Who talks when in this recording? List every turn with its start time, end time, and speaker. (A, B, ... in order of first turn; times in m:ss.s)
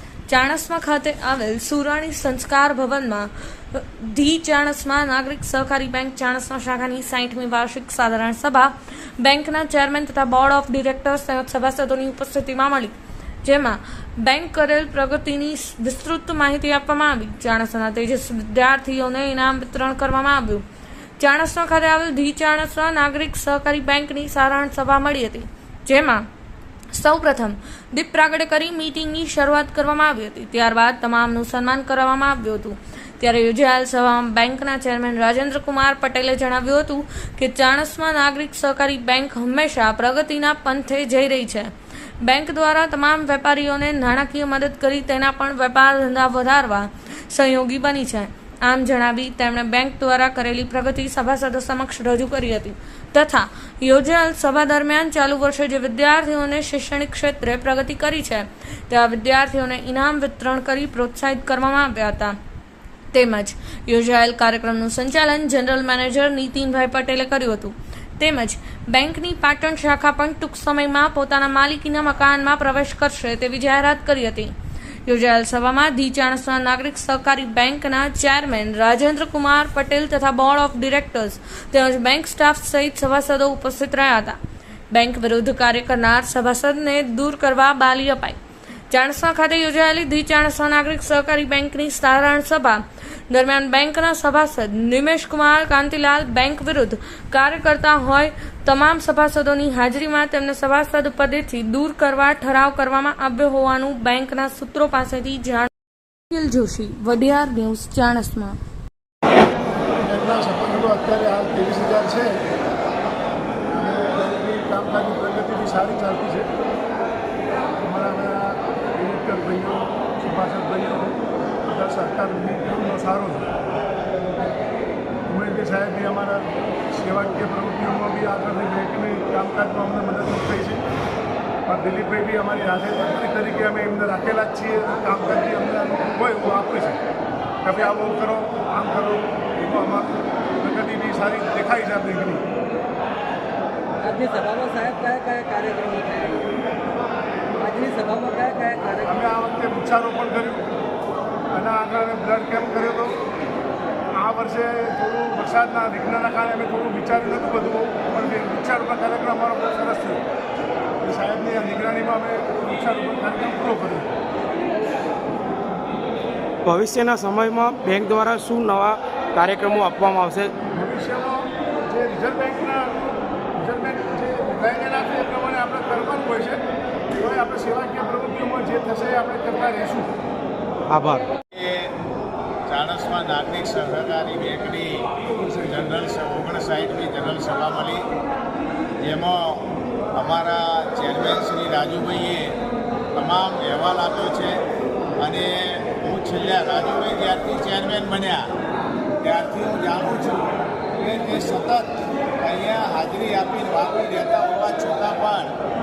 0:00.3-0:20.6 A
0:21.2-0:26.3 A
0:26.9-1:02.4 A
1:03.1-1:14.5 A
1:15.0-1:24.4 A
1:24.9-1:28.4 A
1:28.9-1:45.7 A
1:46.3-1:48.6 A
1:49.9-1:52.4 B
1:53.7-1:56.5 B
1:57.8-2:03.5 B
2:05.3-2:10.9 B
2:11.7-2:17.0 B
2:17.6-2:22.4 B
2:24.0-2:26.5 C
2:27.6-2:29.0 C
2:29.0-2:30.6 B
2:31.5-2:33.2 B
2:34.1-2:40.2 B
2:41.0-2:44.1 B
2:46.7-2:50.5 D
2:50.7-2:53.0 B
2:53.6-3:00.1 B
3:00.9-3:01.3 D
3:01.5-3:01.9 E
3:02.7-3:08.1 E
3:09.0-3:12.6 E
3:13.1-3:14.6 E
3:15.2-3:18.5 E
3:19.2-3:25.6 E